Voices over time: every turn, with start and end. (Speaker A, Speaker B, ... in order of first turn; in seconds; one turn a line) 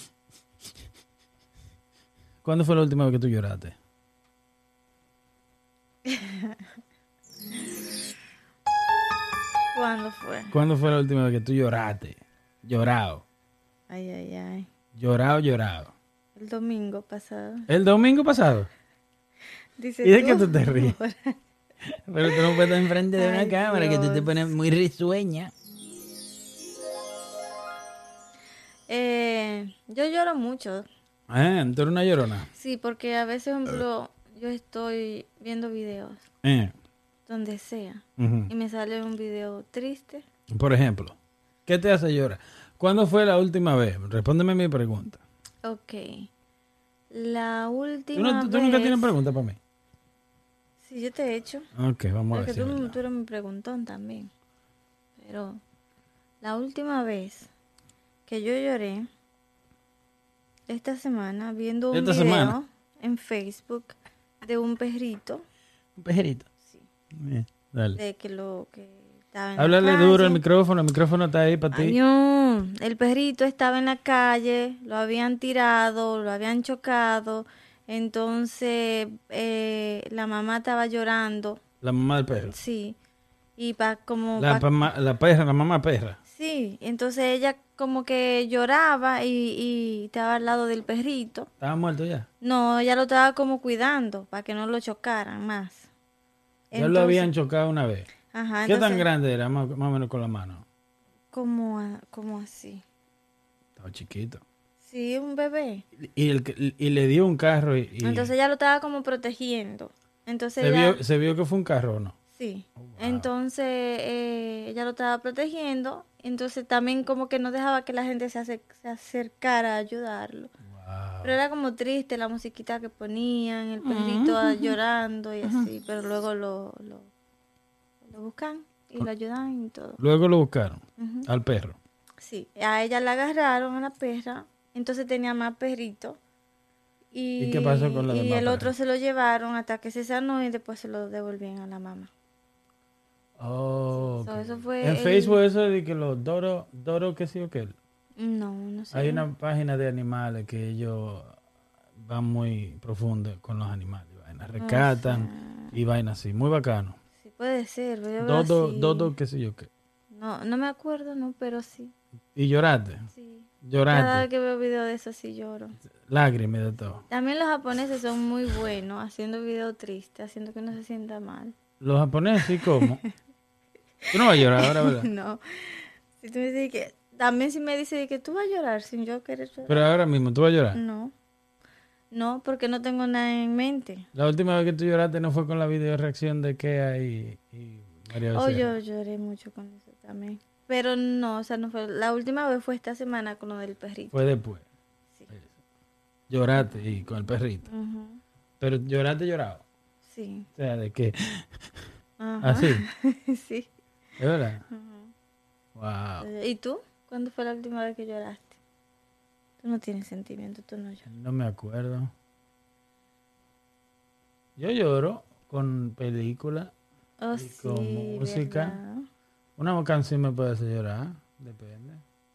Speaker A: 2.4-3.8
Speaker B: 6.0-6.7
Speaker B: 9.7-10.5
Speaker A: 10.5-13.2
Speaker B: 13.9-14.7
Speaker A: 14.9-15.9
Speaker B: 16.4-17.7
Speaker A: 17.7-18.7
Speaker B: 19.8-21.4
Speaker A: 20.0-20.9
Speaker A: 21.9-25.5
Speaker B: 22.2-24.4
Speaker B: 28.9-30.9
Speaker A: 31.3-32.5
Speaker B: 32.5-36.2
Speaker A: 36.4-36.7
Speaker B: 37.3-40.2
Speaker A: 38.2-38.5
Speaker A: 40.5-45.2
Speaker B: 45.6-46.3
Speaker B: 47.1-49.1
Speaker A: 48.1-49.6
Speaker B: 50.8-51.7
Speaker A: 51.8-53.0
Speaker B: 52.3-54.3
Speaker B: 55.2-55.6
Speaker B: 56.4-57.5
Speaker B: 58.3-59.1
Speaker B: 60.7-65.4
Speaker A: 61.9-62.6
Speaker A: 66.0-66.5
Speaker A: 67.2-68.0
Speaker B: 68.0-70.4
Speaker A: 69.6-72.0
Speaker B: 71.7-81.6
Speaker A: 81.8-82.6
Speaker B: 82.5-83.0
Speaker B: 83.6-84.7
Speaker A: 84.4-86.2
Speaker B: 86.3-91.5
Speaker A: 91.6-92.3
Speaker B: 92.4-95.9
Speaker B: 96.7-97.3
Speaker A: 96.8-98.1
Speaker B: 98.3-99.1
Speaker A: 98.7-100.7
Speaker B: 101.3-102.8
Speaker A: 103.8-104.4
Speaker B: 104.8-105.8
Speaker A: 106.0-108.3
Speaker B: 108.0-111.0
Speaker A: 110.6-112.2
Speaker B: 112.3-120.5
Speaker A: 112.8-113.3
Speaker A: 120.6-121.4
Speaker B: 121.2-127.1
Speaker A: 123.8-124.8
Speaker B: 128.0-130.0
Speaker A: 130.0-131.8
Speaker B: 131.0-131.3
Speaker B: 132.2-136.2
Speaker B: 137.1-142.1
Speaker A: 137.4-138.7
Speaker A: 143.4-147.8
Speaker B: 144.2-145.4
Speaker B: 148.2-149.2
Speaker A: 148.9-151.4
Speaker A: 152.0-157.0
Speaker B: 154.6-155.8
Speaker B: 157.2-159.1
Speaker A: 158.2-159.7
Speaker B: 160.1-161.9
Speaker A: 162.3-163.1
Speaker B: 163.1-165.8
Speaker A: 163.6-164.2
Speaker A: 166.1-167.1
Speaker B: 167.1-171.5
Speaker A: 171.8-173.0
Speaker B: 172.6-173.1
Speaker B: 174.0-179.8
Speaker A: 174.1-175.1
Speaker A: 179.7-180.8
Speaker B: 180.7-181.1
Speaker B: 182.1-184.1
Speaker A: 184.1-188.8
Speaker B: 188.3-194.2
Speaker A: 194.1-194.7
Speaker A: 196.3-197.7
Speaker B: 196.6-196.9
Speaker B: 197.7-198.2
Speaker A: 198.6-199.6
Speaker B: 200.1-200.5
Speaker A: 200.6-201.6
Speaker B: 202.2-203.7
Speaker A: 202.4-202.8
Speaker A: 204.2-204.6
Speaker B: 204.7-205.1
Speaker A: 205.8-206.3
Speaker B: 206.2-208.6
Speaker B: 209.6-211.1
Speaker A: 211.1-212.1
Speaker A: 214.6-216.7
Speaker B: 217.2-219.1
Speaker A: 217.3-218.8
Speaker A: 219.6-222.0